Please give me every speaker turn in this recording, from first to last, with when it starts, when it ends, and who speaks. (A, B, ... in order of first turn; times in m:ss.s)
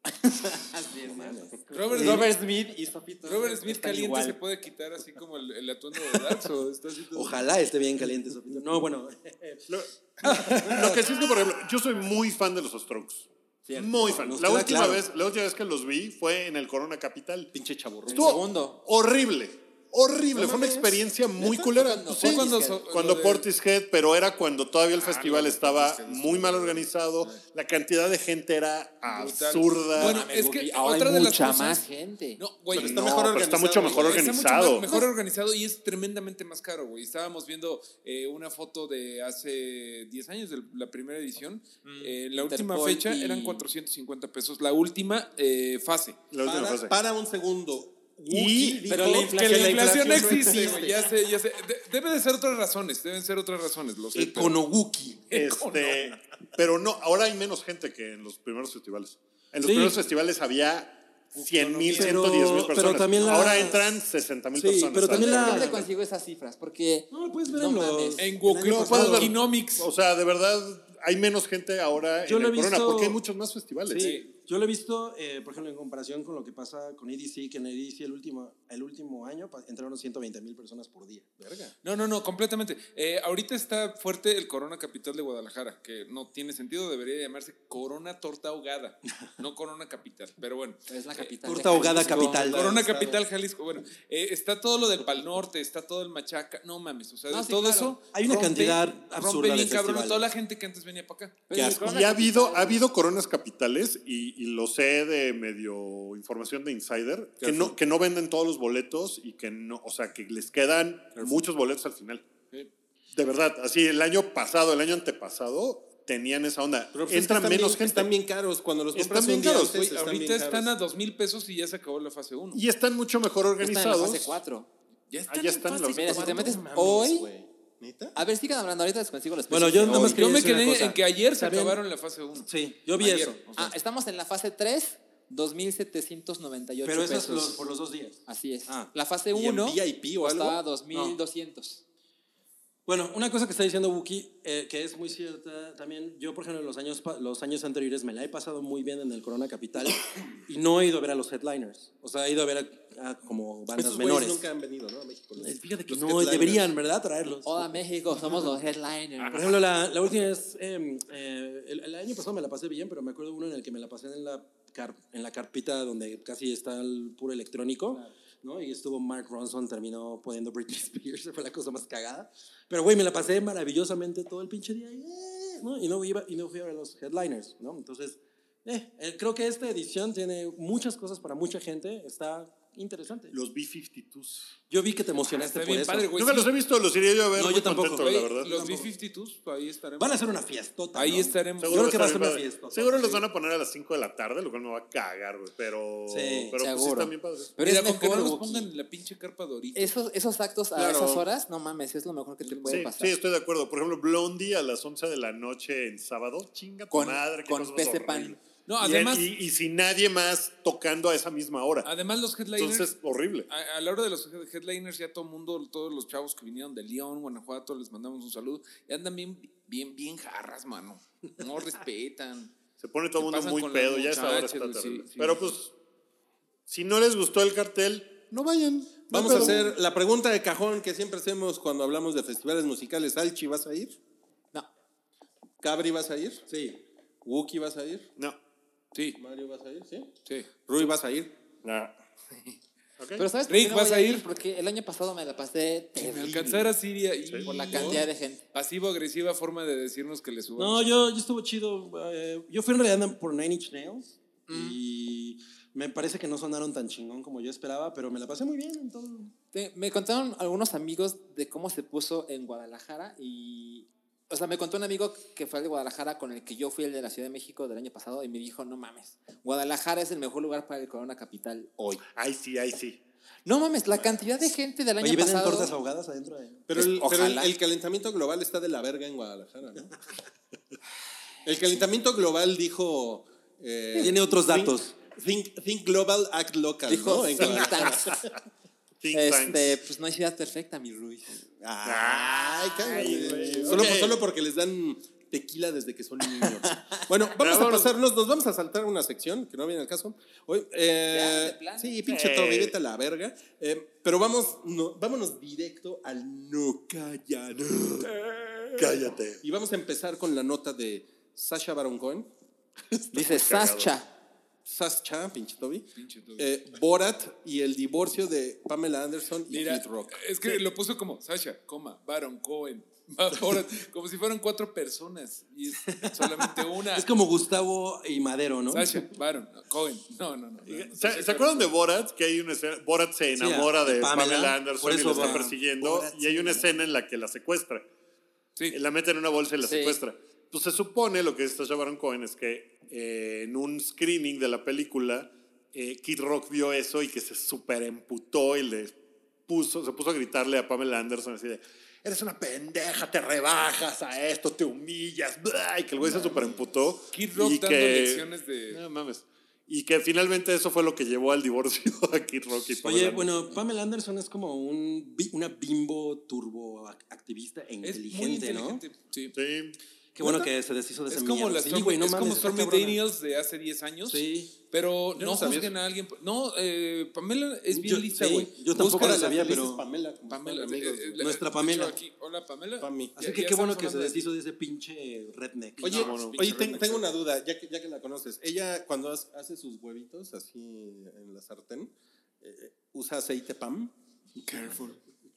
0:00.1-0:04.4 A
0:01.1-0:01.4 B
0:01.7-0:02.3 C
0:03.2-0:07.4 C
0:07.1-0:09.6 B
0:09.7-0:17.5 D
0:10.2-0:11.1 B
0:13.6-0:14.3 A
0:14.1-0:15.0 B
0:17.5-0:18.4 E
0:18.1-0:18.8 A
0:18.1-0:30.2 D
0:20.3-0:21.7 E
0:21.8-0:22.8 A
0:22.1-0:23.4 C
0:25.0-0:27.4 C
0:29.0-0:31.8 C
0:30.0-0:32.4 A
0:32.4-0:33.2 C
0:32.7-0:34.4 E
0:32.7-0:35.0 D
0:33.8-0:46.2 C
0:41.8-0:43.6 A
0:46.3-0:47.0 D
0:46.4-0:51.0 E
0:48.3-0:48.9 D
0:48.9-0:50.8 A
0:49.1-0:54.6 C
0:49.1-0:49.5 B
0:54.1-0:55.3 B
0:55.3-0:56.2 C
0:55.3-1:05.8 D
0:59.6-1:00.0 B
1:01.3-1:03.3 C
1:01.9-1:03.8 B
1:04.5-1:05.8 B
1:05.1-1:08.3 A
1:07.1-1:09.3 B
1:08.2-1:09.9 C
1:08.6-1:14.2 D
1:12.2-1:13.2 B
1:13.9-1:21.5 B
1:14.0-1:14.3 C
1:21.5-1:21.7 E
1:21.8-1:31.2 C
1:30.9-1:32.6 A
1:31.4-1:32.7 B
1:32.3-1:33.2 E
1:32.4-1:41.4 C
1:37.3-1:38.0 A
1:38.1-1:40.3 B
1:41.5-1:42.8 A
1:41.5-1:41.8 E
1:41.7-1:52.2 D
1:47.4-1:47.8 E
1:53.1-1:58.1 D
1:56.9-2:00.7 E
1:58.9-1:59.9 D
1:59.7-2:02.6 C
2:02.5-2:04.4 D
2:03.6-2:04.7 A
2:05.1-2:05.9 C
2:05.3-2:06.6 D
2:05.3-2:08.2 E
2:05.9-2:07.3 A
2:08.1-2:10.2 A
2:09.5-2:11.8 B
2:09.8-2:13.7 C
2:12.4-2:13.4 B
2:13.6-2:17.7 A
2:16.8-2:18.9 B
2:18.2-2:21.8 A
2:19.3-2:20.6 E
2:22.8-2:34.4 B
2:33.8-2:36.7 E
2:35.4-2:37.7 B
2:37.4-2:39.5 A
2:39.3-3:03.3 B
3:03.3-3:04.6 D
3:04.7-3:06.1 B
3:05.3-3:06.5 C
3:06.1-3:08.5 D
3:07.3-3:08.9 B
3:08.0-3:10.2 C
3:10.0-3:13.2 B
3:10.9-3:12.0 C
3:11.6-3:17.6 D
3:16.1-3:16.6 B
3:16.6-3:18.7 A
3:17.6-3:20.0 C
3:19.7-3:23.2 A
3:20.7-3:21.2 E
3:22.4-3:22.9 C
3:22.7-3:31.9 D
3:26.9-3:28.4 A
3:28.6-3:29.3 C
3:31.8-3:32.9 C
3:32.6-3:33.5 D
3:33.5-3:42.5 C
3:42.8-3:45.7 D
3:43.2-3:45.5 C
3:46.7-3:49.8 D
3:49.1-3:54.0 E
3:55.6-3:56.5 E
3:56.5-3:56.8 B
3:57.2-3:58.1 E
3:58.9-3:59.2 C
3:59.2-4:00.1 E
4:00.6-4:01.9 E
4:03.0-4:03.3 D
4:03.2-4:06.7 A
4:03.5-4:04.2 C
4:06.0-4:11.0 C
4:07.3-4:07.5 D
4:07.4-4:08.4 A
4:10.6-4:19.3 B
4:14.5-4:14.7 A
4:19.5-4:32.0 A
4:32.1-4:33.0 D
4:33.4-4:35.7 A
4:35.0-4:36.7 B
4:36.7-4:39.9 E
4:36.7-4:37.5 A
4:41.4-4:48.2 E
4:44.0-4:45.0 B
4:46.9-4:48.2 A
4:47.4-4:48.2 D
4:49.0-4:49.7 D
4:49.1-4:51.4 A
4:51.6-5:08.3 E
4:51.8-4:54.2 D
4:52.9-4:53.3 A
4:56.6-4:57.0 A
4:57.3-4:58.0 D
5:01.1-5:01.9 A
5:02.0-5:02.8 D
5:08.8-5:09.4 D
5:09.4-5:12.3 E
5:12.9-5:13.9 D
5:13.1-5:14.1 A
5:14.6-5:15.8 E
5:15.9-5:16.5 C
5:16.4-5:20.6 E
5:19.5-5:27.1 C
5:25.9-5:29.0 B
5:28.7-5:31.7 C
5:30.7-5:37.8 D
5:33.4-5:36.7 B
5:38.7-5:49.0 D
5:39.6-5:40.0 A
5:49.5-6:03.3 D
5:57.1-5:58.8 C
6:02.8-6:08.8 B
6:07.8-6:09.3 C
6:09.3-6:09.8 D
6:10.2-6:13.0 B
6:10.2-6:10.5 E
6:11.1-6:19.3 C
6:14.0-6:14.5 B
6:15.2-6:15.7 E
6:17.7-6:19.8 B
6:18.7-6:21.2 E
6:20.3-6:24.2 C
6:21.2-6:22.0 B
6:22.8-6:23.1 E
6:23.2-6:26.3 B
6:25.8-6:33.9 E
6:25.8-6:26.5 C
6:25.9-6:27.0 D
6:34.4-6:35.0 C